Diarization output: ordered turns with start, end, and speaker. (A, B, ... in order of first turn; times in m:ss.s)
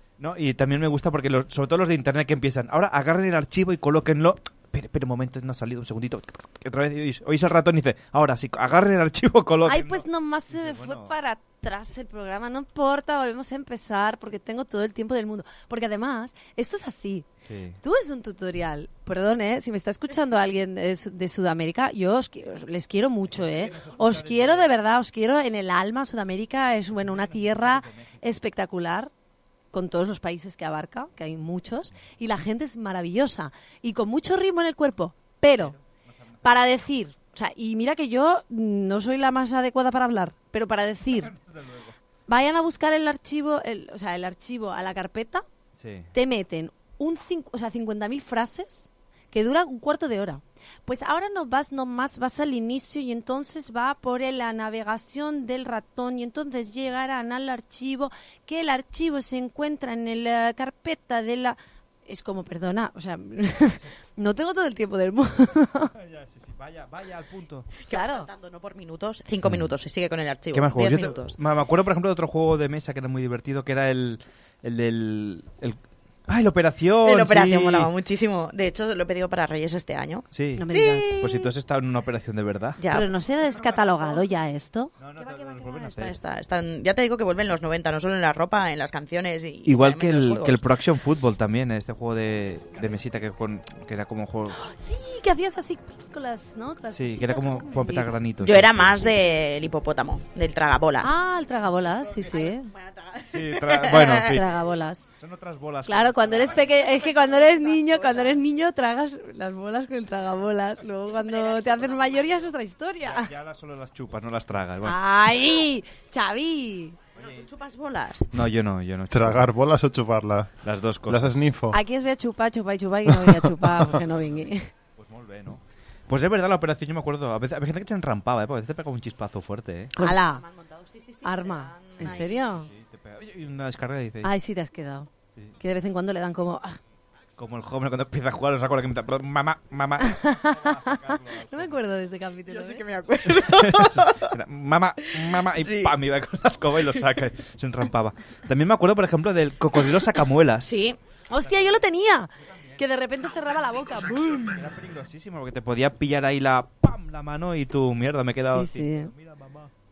0:00.2-0:11.1 A
0:09.6-0:17.3 B
0:17.4-0:17.8 A
0:17.8-0:29.1 B
0:23.3-0:24.7 A
0:26.9-0:28.4 A
0:29.7-0:35.7 B
0:35.6-0:36.8 A
0:36.4-0:41.3 B
0:41.1-0:41.9 A
0:42.3-0:45.4 B
0:45.8-0:46.1 A
0:46.1-1:05.9 B
1:05.9-1:07.7 A
1:07.9-1:11.4 C
1:07.9-1:08.3 B
1:09.4-1:09.7 A
1:10.5-1:17.9 A
1:17.0-1:21.2 C
1:20.3-1:20.7 A
1:20.6-1:21.2 B
1:21.2-1:22.8 A
1:22.8-1:23.1 C
1:22.9-1:24.9 B
1:23.6-1:24.1 A
1:25.0-1:26.2 A
1:25.2-1:30.7 C
1:29.6-1:34.6 A
1:34.6-1:39.1 B
1:36.9-1:39.1 A
1:38.4-1:41.1 C
1:41.0-1:42.7 B
1:42.1-1:44.3 C
1:43.3-1:44.4 A
1:44.1-1:45.0 B
1:45.2-1:46.7 A
1:45.9-1:53.3 B
1:46.3-1:48.4 C
1:51.0-1:52.5 C
1:53.0-1:55.0 A
1:54.8-1:57.0 B
1:57.2-1:57.5 A
1:57.2-1:58.3 C
1:58.3-1:59.5 A
1:59.1-2:01.8 D
2:00.6-2:01.4 A
2:01.7-2:04.7 B
2:03.1-2:03.8 D
2:05.0-2:09.9 A
2:10.0-2:10.4 B
2:10.0-2:12.5 C
2:11.2-2:12.7 B
2:12.0-2:14.3 A
2:14.2-2:16.8 B
2:17.4-2:21.8 A
2:20.0-2:22.8 B
2:22.5-2:24.3 C
2:23.4-2:30.7 A
2:25.0-2:26.0 C
2:30.1-2:31.0 C
2:31.3-2:34.6 B
2:31.4-2:31.8 A
2:32.4-2:32.8 A
2:33.6-2:39.7 A
2:38.4-2:39.1 B